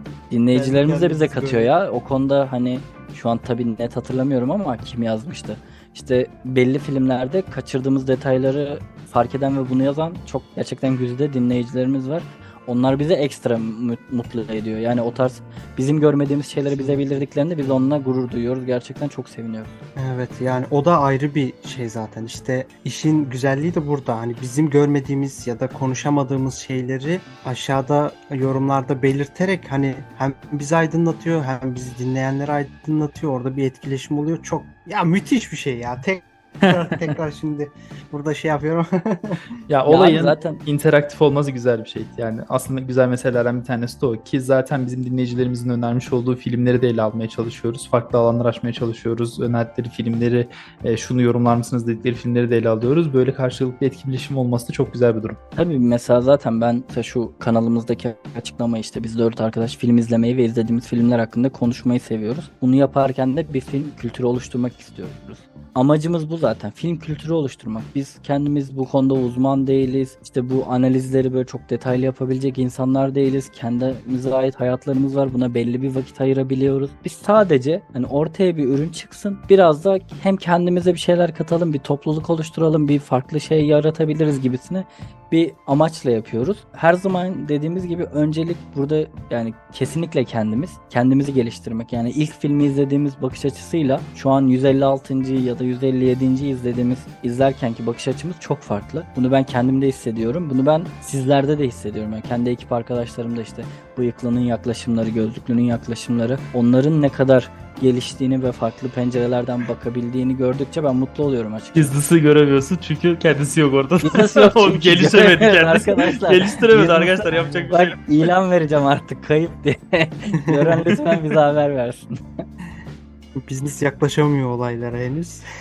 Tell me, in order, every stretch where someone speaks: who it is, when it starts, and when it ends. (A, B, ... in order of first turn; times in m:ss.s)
0:00.3-0:19.7 A
0:00.5-0:01.7 B
0:16.6-0:17.3 B
0:20.0-0:39.4 B
0:36.6-0:37.2 C
0:39.7-0:55.4 C
0:39.8-0:40.6 A
0:55.6-1:51.9 A
1:51.7-1:58.3 C
1:54.0-1:56.5 A
1:56.7-1:57.7 B
1:57.7-2:02.1 A
2:03.4-2:05.4 B